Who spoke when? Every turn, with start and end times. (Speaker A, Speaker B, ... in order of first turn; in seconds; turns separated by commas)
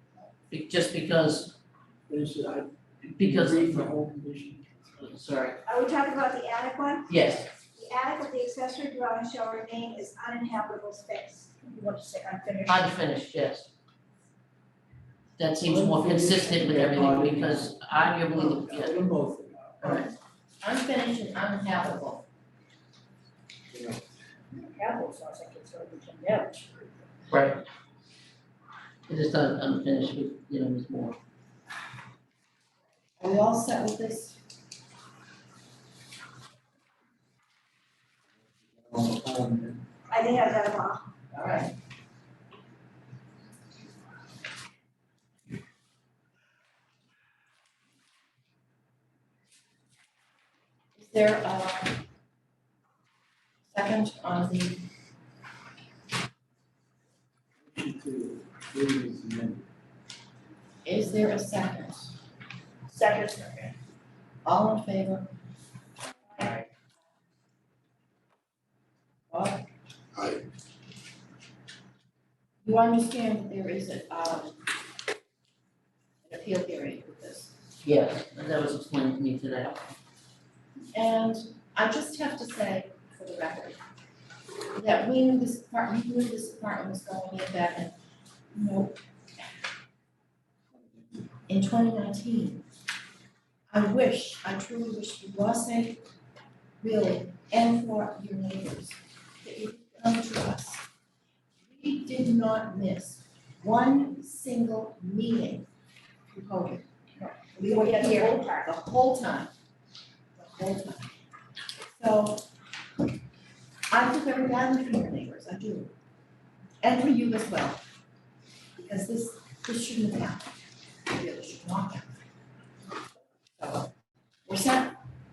Speaker A: 0.5-1.6, Speaker B: 2.1-4.8, Speaker A: 3.2-3.9, Speaker A: 5.0-5.6, Speaker C: 5.7-11.5, Speaker A: 7.1-7.5, Speaker D: 11.6-12.9, Speaker A: 12.7-13.7, Speaker A: 15.4-19.0, Speaker B: 15.6-20.0, Speaker A: 19.8-20.1, Speaker E: 20.6-22.2, Speaker B: 23.7-24.0, Speaker D: 24.7-26.9, Speaker A: 27.3-27.6, Speaker A: 29.1-31.2, Speaker E: 33.2-34.4, Speaker B: 38.6-39.8, Speaker C: 40.1-41.0, Speaker E: 41.3-41.7, Speaker E: 51.0-52.0, Speaker E: 53.7-54.9, Speaker B: 57.6-59.7, Speaker E: 60.9-62.1, Speaker D: 62.9-63.7, Speaker E: 64.4-65.3, Speaker E: 69.3-69.7, Speaker E: 72.6-74.6, Speaker E: 76.2-77.5, Speaker A: 77.8-79.8, Speaker E: 80.9-83.8, Speaker E: 84.8-88.0, Speaker E: 88.5-89.4, Speaker B: 90.8-91.2, Speaker E: 91.5-92.6, Speaker E: 93.7-96.0, Speaker E: 96.8-100.8, Speaker E: 101.7-105.7, Speaker E: 106.3-106.9, Speaker D: 107.5-108.7, Speaker E: 107.5-109.5, Speaker E: 110.4-111.1, Speaker E: 111.9-112.5, Speaker E: 113.9-115.9, Speaker E: 116.8-117.8, Speaker E: 118.8-120.5, Speaker E: 121.1-122.1, Speaker E: 123.6-123.9, Speaker E: 124.5-125.0